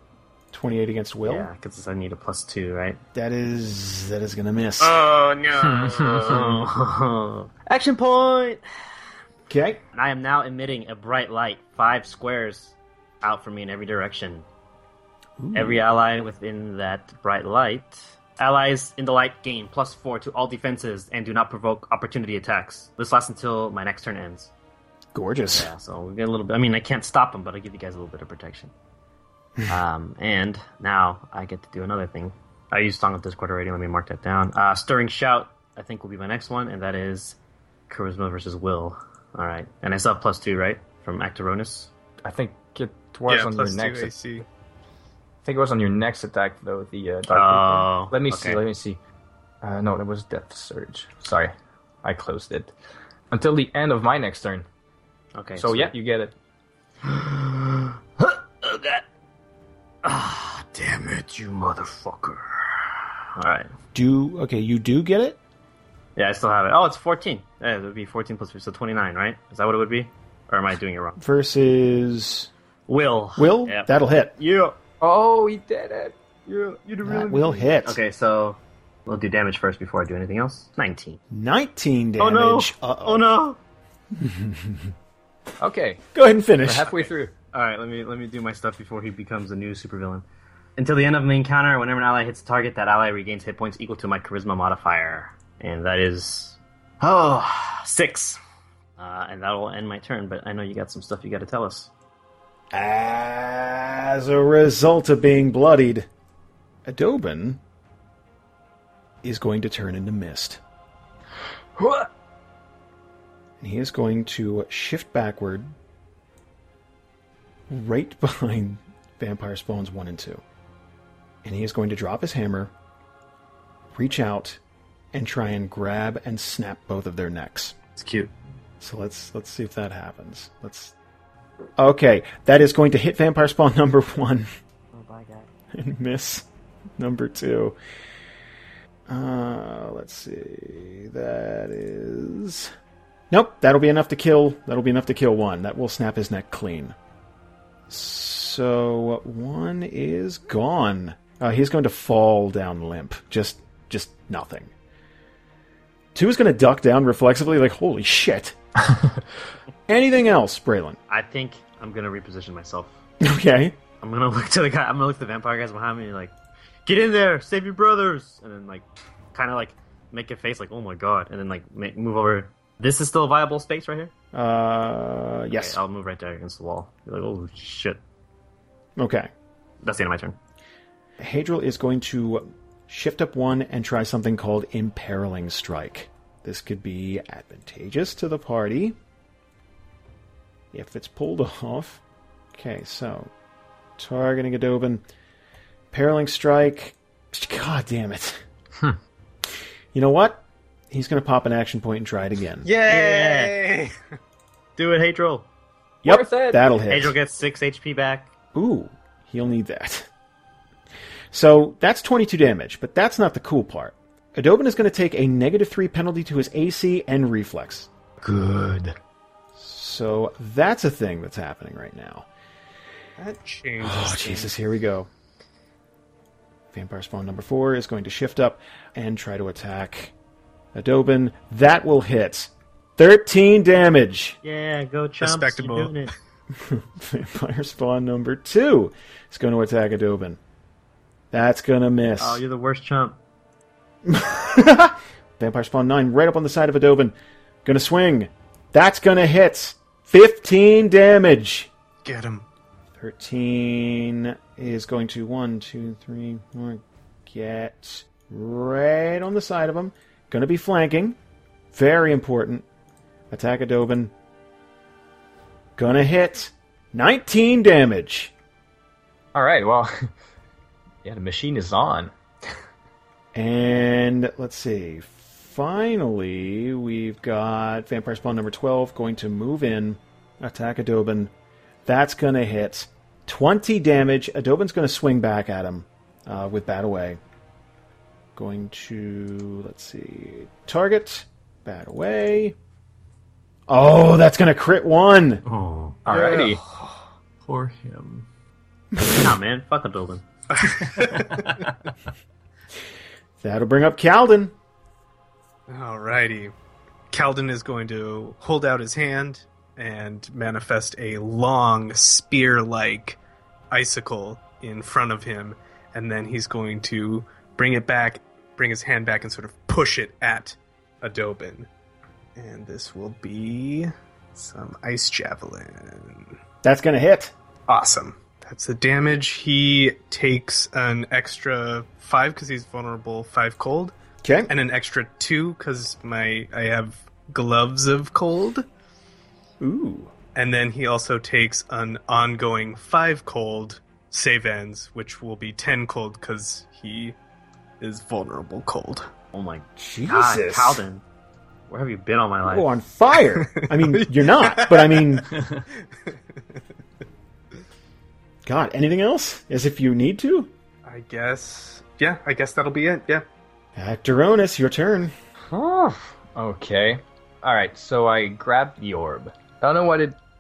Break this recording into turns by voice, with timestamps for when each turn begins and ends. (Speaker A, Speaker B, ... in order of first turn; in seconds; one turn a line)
Speaker A: 0.5-1.5
Speaker B: 1.2-3.0
Speaker A: 3.1-5.0
Speaker B: 4.8-8.6
Speaker C: 5.6-6.6
Speaker A: 9.5-9.8
Speaker B: 9.9-14.5
Speaker A: 15.4-15.8
Speaker B: 15.5-24.5
Speaker A: 25.1-25.7
Speaker B: 25.5-28.7
Speaker B: 29.7-37.4
Speaker B: 37.9-41.9
Speaker C: 42.2-44.1
Speaker D: 43.3-44.5
Speaker C: 45.4-49.0
Speaker B: 47.3-48.6
Speaker C: 49.6-51.5
Speaker C: 52.0-52.7
Speaker C: 53.3-54.6
Speaker B: 55.4-55.9
Speaker C: 55.6-56.3
Speaker B: 57.0-59.0
Speaker B: 60.0-63.7
Speaker A: 63.9-65.4
Speaker B: 66.2-71.2
Speaker A: 71.2-72.5
Speaker B: 72.9-74.8
Speaker A: 73.4-74.3
Speaker C: 75.0-76.2
Speaker B: 76.5-81.2
Speaker A: 77.0-78.0
Speaker A: 81.3-83.3
Speaker B: 82.2-83.6
Speaker A: 84.2-84.9
Speaker C: 85.6-86.0
Speaker A: 86.2-87.0
Speaker C: 86.7-87.3
Speaker B: 87.5-90.2
Speaker B: 90.8-98.4
Speaker B: 99.0-101.9
Speaker A: 102.7-106.1
Speaker A: 106.8-107.6
Speaker A: 109.2-110.6
Speaker C: 111.8-112.1
Speaker A: 113.6-115.7
Speaker A: 117.7-120.4
Speaker A: 121.4-122.7
Speaker A: 123.9-124.6
Speaker A: 125.1-127.8
Speaker E: 128.0-128.3
Speaker A: 128.8-130.9
Speaker A: 131.8-134.5
Speaker B: 134.9-135.5
Speaker A: 135.7-136.5
Speaker A: 137.0-137.8
Speaker A: 139.1-142.7
Speaker A: 143.3-147.0
Speaker A: 147.9-154.7
Speaker A: 156.1-158.6
Speaker A: 159.9-161.0
Speaker B: 161.1-162.9
Speaker A: 163.2-163.8
Speaker B: 164.0-166.3
Speaker B: 166.9-174.1
Speaker A: 174.3-175.8
Speaker B: 175.5-178.0
Speaker A: 179.0-179.3
Speaker B: 179.8-180.4
Speaker A: 181.2-189.0
Speaker A: 190.7-192.0
Speaker A: 192.5-193.3
Speaker A: 194.0-195.1
Speaker A: 195.9-198.4
Speaker A: 199.9-202.7
Speaker D: 202.7-203.9
Speaker B: 202.9-203.6
Speaker B: 204.8-205.5
Speaker A: 206.0-207.2
Speaker C: 206.1-206.6
Speaker B: 206.9-208.3
Speaker A: 208.6-210.1
Speaker A: 211.3-217.9
Speaker C: 218.2-219.0
Speaker A: 219.6-222.3
Speaker D: 223.2-224.5
Speaker A: 223.8-225.1
Speaker A: 226.7-230.1
Speaker A: 230.7-234.4
Speaker B: 234.4-236.1
Speaker D: 235.2-236.1
Speaker A: 236.6-240.4
Speaker A: 241.3-242.4
Speaker B: 242.2-243.2
Speaker A: 244.1-247.1
Speaker A: 247.7-251.7
Speaker D: 252.0-252.4
Speaker A: 253.0-261.2
Speaker A: 261.7-262.7
Speaker A: 263.3-264.1
Speaker A: 265.8-268.3
Speaker C: 269.4-270.1
Speaker C: 271.0-272.1
Speaker A: 273.4-281.3
Speaker A: 281.9-287.2
Speaker A: 288.4-292.6
Speaker A: 293.7-295.4
Speaker E: 295.4-296.5
Speaker C: 296.1-296.6
Speaker E: 297.4-298.3
Speaker A: 299.0-299.3
Speaker B: 299.2-300.2
Speaker D: 300.5-301.6
Speaker A: 303.4-304.5
Speaker D: 305.7-306.5
Speaker D: 307.1-313.2
Speaker D: 313.7-321.7
Speaker D: 322.4-326.4
Speaker A: 326.6-327.3
Speaker D: 327.7-333.9
Speaker A: 334.2-334.5
Speaker D: 334.5-338.7
Speaker A: 339.6-340.1
Speaker D: 340.4-347.2
Speaker D: 347.8-349.1
Speaker B: 349.3-351.0
Speaker A: 349.8-350.8
Speaker B: 351.7-352.7
Speaker A: 352.5-355.3
Speaker D: 353.3-355.2
Speaker A: 358.4-360.5
Speaker D: 360.9-363.2
Speaker A: 363.8-365.1
Speaker C: 365.5-370.2